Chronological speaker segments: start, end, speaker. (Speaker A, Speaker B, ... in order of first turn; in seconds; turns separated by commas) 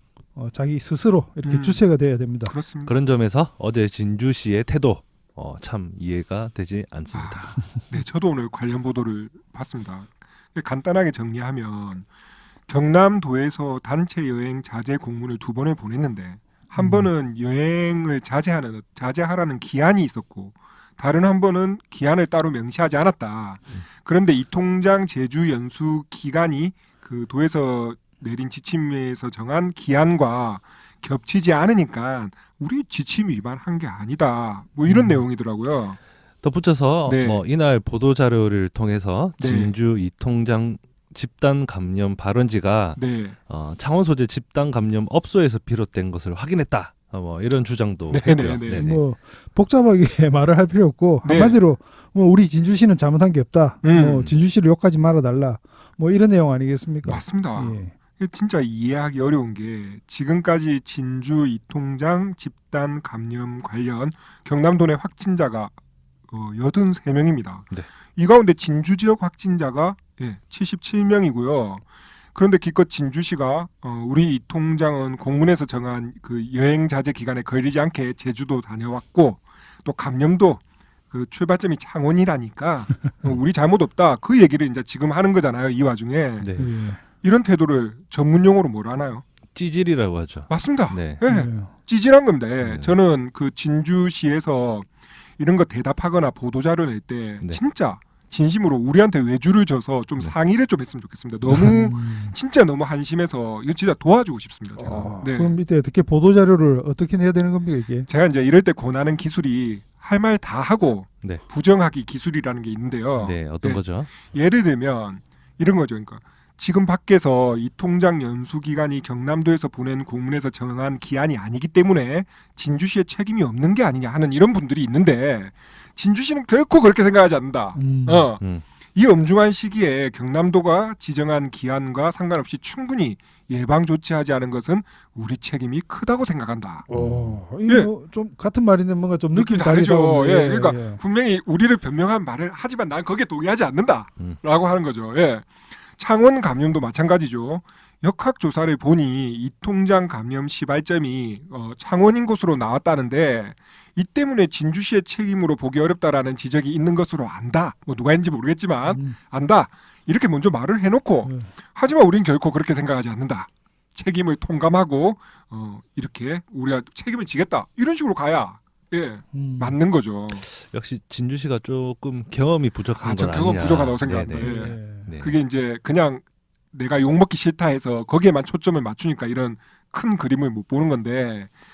Speaker A: 0.3-2.5, Speaker B: 1.4-1.9, Speaker B: 2.4-3.0, Speaker C: 2.8-7.6, Speaker B: 7.1-12.1, Speaker B: 12.7-36.0, Speaker A: 16.8-17.1, Speaker A: 34.9-35.2, Speaker C: 36.4-49.0, Speaker B: 37.0-37.4, Speaker B: 39.4-39.7, Speaker B: 43.0-43.4, Speaker B: 48.1-48.9, Speaker A: 48.6-57.9, Speaker B: 51.2-51.6, Speaker B: 53.8-54.3, Speaker B: 57.0-65.7, Speaker B: 66.3-86.5, Speaker C: 86.4-86.7, Speaker A: 86.5-87.0, Speaker B: 87.2-89.2, Speaker C: 89.5-91.2, Speaker B: 90.5-105.6, Speaker A: 91.2-91.7, Speaker C: 92.6-93.0, Speaker A: 101.5-102.3, Speaker A: 104.8-108.1, Speaker B: 108.0-136.9, Speaker C: 113.2-114.1, Speaker A: 127.7-128.3, Speaker A: 136.9-141.0, Speaker C: 136.9-137.4, Speaker B: 139.3-170.4, Speaker A: 158.8-159.2, Speaker A: 161.2-161.5, Speaker A: 169.3-169.8, Speaker C: 170.5-175.4, Speaker B: 173.0-181.5, Speaker A: 174.3-175.1